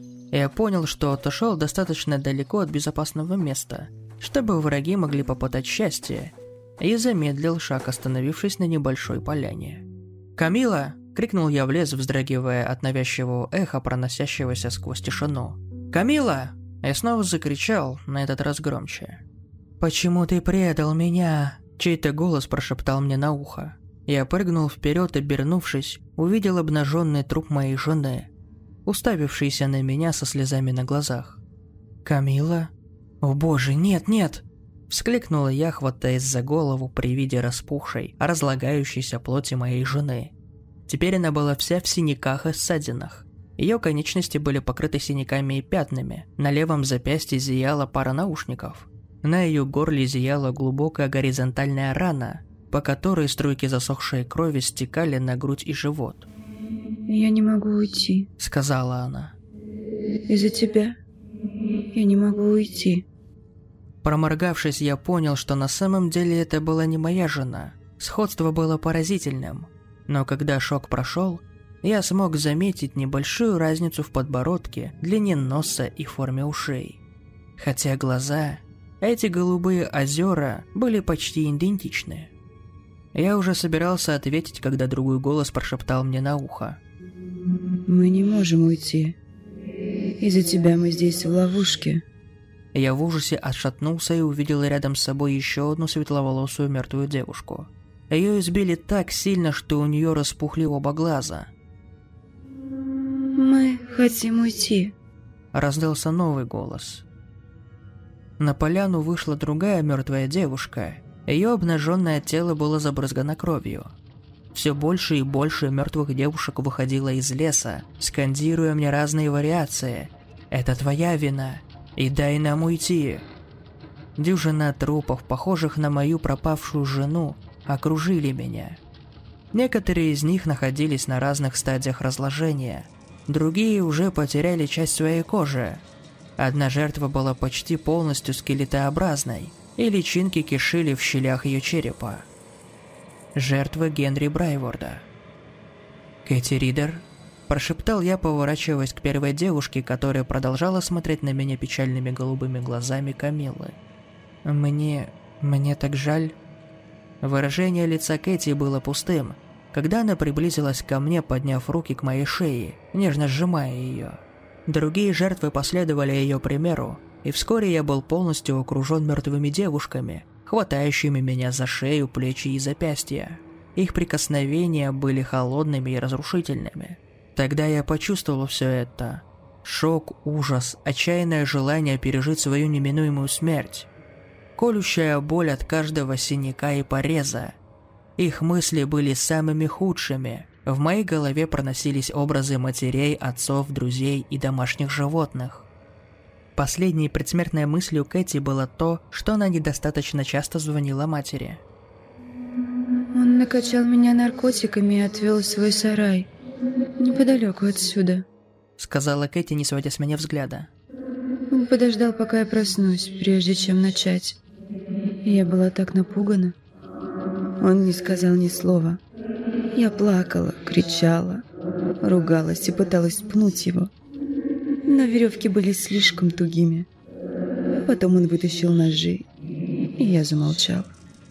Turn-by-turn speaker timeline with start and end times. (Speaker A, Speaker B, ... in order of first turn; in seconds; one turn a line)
Speaker A: 0.3-19.2
Speaker A: 19.8-28.3
Speaker A: 28.9-31.4
Speaker A: 32.0-40.3
Speaker A: 40.9-56.3
Speaker B: 57.1-58.3
Speaker A: 58.4-59.4
Speaker B: 60.3-61.0
Speaker B: 61.9-63.0
Speaker A: 64.0-77.0
Speaker A: 77.6-82.3
Speaker A: 83.1-86.8
Speaker B: 87.9-89.2
Speaker B: 90.2-92.0
Speaker A: 92.7-101.5
Speaker B: 103.3-104.9
Speaker A: 105.5-107.0
Speaker A: 108.4-113.9
Speaker A: 114.5-123.2
Speaker A: 124.2-128.8
Speaker A: 129.5-135.8
Speaker A: 136.4-142.3
Speaker A: 143.3-145.1
Speaker A: 146.2-153.8
Speaker A: 154.4-156.4
Speaker A: 157.2-183.9
Speaker A: 184.6-187.6
Speaker A: 188.2-195.7
Speaker A: 196.5-201.6
Speaker B: 203.1-206.3
Speaker B: 207.0-208.2
Speaker A: 208.8-210.7
Speaker B: 211.5-214.4
Speaker B: 215.2-216.5
Speaker B: 217.6-219.0
Speaker B: 219.8-221.4
Speaker B: 222.0-223.9
Speaker B: 224.9-226.9
Speaker B: 227.7-229.3
Speaker B: 230.0-230.9